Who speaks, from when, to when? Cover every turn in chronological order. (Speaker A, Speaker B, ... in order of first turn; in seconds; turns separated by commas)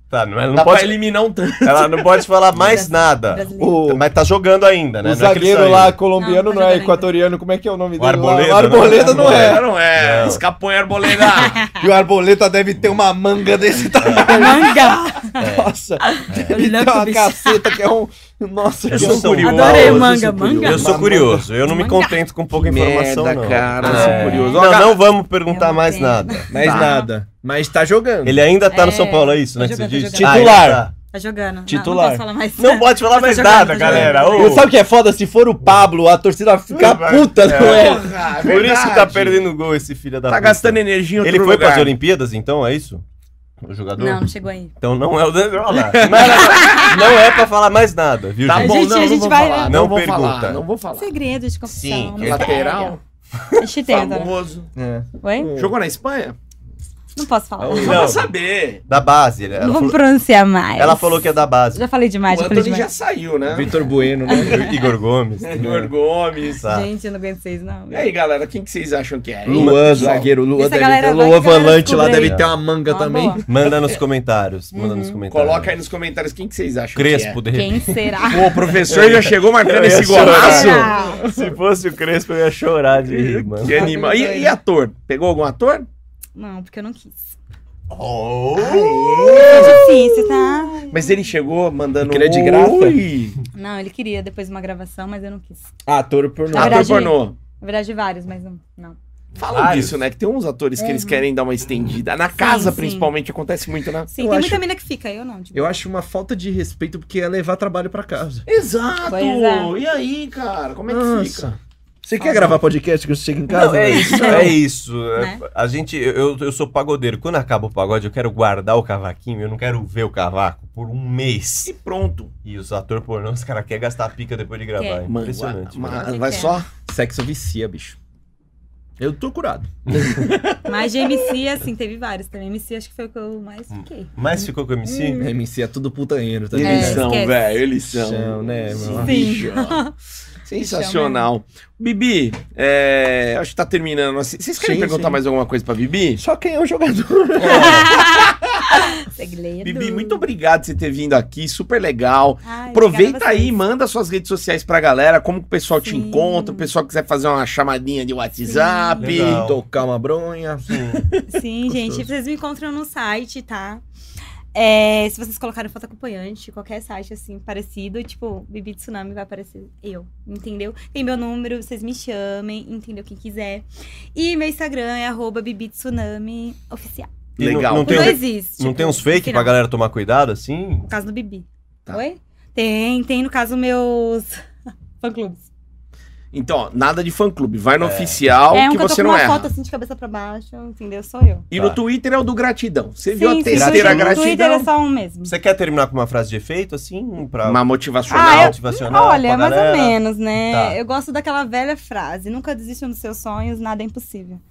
Speaker A: 0.1-1.1, Speaker B: 0.5-2.2, Speaker A: 1.6-5.9, Speaker C: 2.5-3.8, Speaker D: 3.5-4.0, Speaker D: 5.0-9.7, Speaker C: 6.2-7.1, Speaker A: 8.0-10.4, Speaker B: 8.8-11.6, Speaker C: 11.2-11.8, Speaker D: 11.8-21.5, Speaker A: 14.0-14.4, Speaker C: 14.2-15.4, Speaker A: 15.4-15.7, Speaker C: 16.0-17.6, Speaker A: 16.3-16.6, Speaker A: 18.9-26.5, Speaker B: 18.9-20.2, Speaker C: 19.4-20.9, Speaker C: 21.6-22.2, Speaker B: 22.5-25.0, Speaker C: 23.8-24.7, Speaker C: 25.5-27.1, Speaker D: 26.5-28.4, Speaker B: 26.6-26.9, Speaker A: 28.2-30.9, Speaker C: 28.7-34.6, Speaker D: 30.1-30.9, Speaker D: 31.7-32.2, Speaker A: 32.6-34.7, Speaker D: 33.8-38.1, Speaker A: 36.7-43.0, Speaker B: 37.4-39.4, Speaker B: 40.3-41.9, Speaker A: 43.6-44.2, Speaker C: 44.0-44.7, Speaker A: 44.8-48.8, Speaker B: 45.7-47.0, Speaker C: 46.3-47.0, Speaker B: 48.4-51.1, Speaker C: 48.5-49.8, Speaker A: 49.6-50.6, Speaker C: 51.0-53.0, Speaker A: 51.7-52.6, Speaker B: 52.2-53.0, Speaker C: 53.5-54.3, Speaker B: 53.9-54.7, Speaker D: 54.7-55.7, Speaker C: 55.2-55.5, Speaker B: 55.5-56.4, Speaker C: 57.1-58.1, Speaker D: 57.6-58.2, Speaker A: 57.7-58.3, Speaker B: 57.7-58.8, Speaker A: 58.9-60.0, Speaker C: 59.6-62.9, Speaker A: 60.8-61.8, Speaker B: 62.3-63.9, Speaker D: 63.5-64.6, Speaker C: 64.2-64.9, Speaker A: 64.4-65.8, Speaker B: 65.5-66.6, Speaker D: 65.5-65.9, Speaker A: 66.6-66.9, Speaker C: 66.6-68.1, Speaker B: 67.9-70.3, Speaker D: 69.5-73.4, Speaker A: 69.5-70.1, Speaker C: 70.5-73.4, Speaker A: 72.2-72.5, Speaker A: 73.5-75.8, Speaker C: 74.7-75.2, Speaker B: 75.3-77.4, Speaker A: 76.9-78.1, Speaker C: 77.5-78.6, Speaker B: 78.3-81.5, Speaker A: 78.7-83.9, Speaker C: 80.1-81.2, Speaker D: 80.3-80.9, Speaker B: 83.0-85.9, Speaker C: 83.7-84.6, Speaker C: 86.3-87.3, Speaker A: 87.9-89.6, Speaker B: 88.5-89.8, Speaker D: 89.2-90.7, Speaker C: 89.4-91.1, Speaker B: 90.9-93.4, Speaker D: 92.0-93.0, Speaker C: 93.5-95.7, Speaker D: 95.8-97.0, Speaker B: 96.5-97.3, Speaker C: 96.5-99.0, Speaker B: 99.4-104.1, Speaker A: 99.4-100.0, Speaker C: 100.8-101.2, Speaker C: 102.3-103.1, Speaker C: 104.1-105.8, Speaker D: 104.2-104.6, Speaker D: 105.5-108.4, Speaker B: 108.5-111.6, Speaker C: 109.0-109.7, Speaker D: 110.9-111.5, Speaker D: 112.0-114.6, Speaker C: 112.2-112.6, Speaker A: 113.5-121.7, Speaker C: 113.9-114.6, Speaker B: 121.6-122.3, Speaker A: 122.4-126.4, Speaker C: 124.8-125.1, Speaker B: 125.1-126.7, Speaker C: 125.8-126.6, Speaker D: 126.8-128.0, Speaker D: 129.0-129.7, Speaker B: 129.9-130.4, Speaker C: 130.6-135.2, Speaker A: 133.7-135.2, Speaker D: 135.2-137.1, Speaker B: 136.5-139.8, Speaker C: 136.6-137.4, Speaker D: 137.9-139.3, Speaker C: 138.9-139.9, Speaker B: 140.5-146.2, Speaker C: 140.6-141.3, Speaker D: 144.6-145.2, Speaker D: 146.2-147.9, Speaker C: 147.4-150.2, Speaker A: 147.5-147.9, Speaker B: 147.8-148.3, Speaker B: 149.6-159.4, Speaker C: 152.4-153.6, Speaker C: 155.8-156.7, Speaker C: 158.4-159.1, Speaker A: 159.0-159.6, Speaker D: 159.0-162.1, Speaker A: 160.7-161.0, Speaker C: 161.3-163.8, Speaker C: 164.5-177.1, Speaker A: 177.4-180.9, Speaker B: 177.4-178.2, Speaker C: 177.8-179.6, Speaker C: 180.8-184.3, Speaker C: 185.0-185.5, Speaker B: 186.3-189.5, Speaker A: 187.8-188.2, Speaker C: 188.5-191.4, Speaker B: 191.5-194.7, Speaker A: 191.5-191.8, Speaker C: 193.1-195.3, Speaker D: 193.5-194.1, Speaker A: 195.2-200.0, Speaker B: 197.4-198.6, Speaker C: 198.1-204.4, Speaker A: 200.5-200.8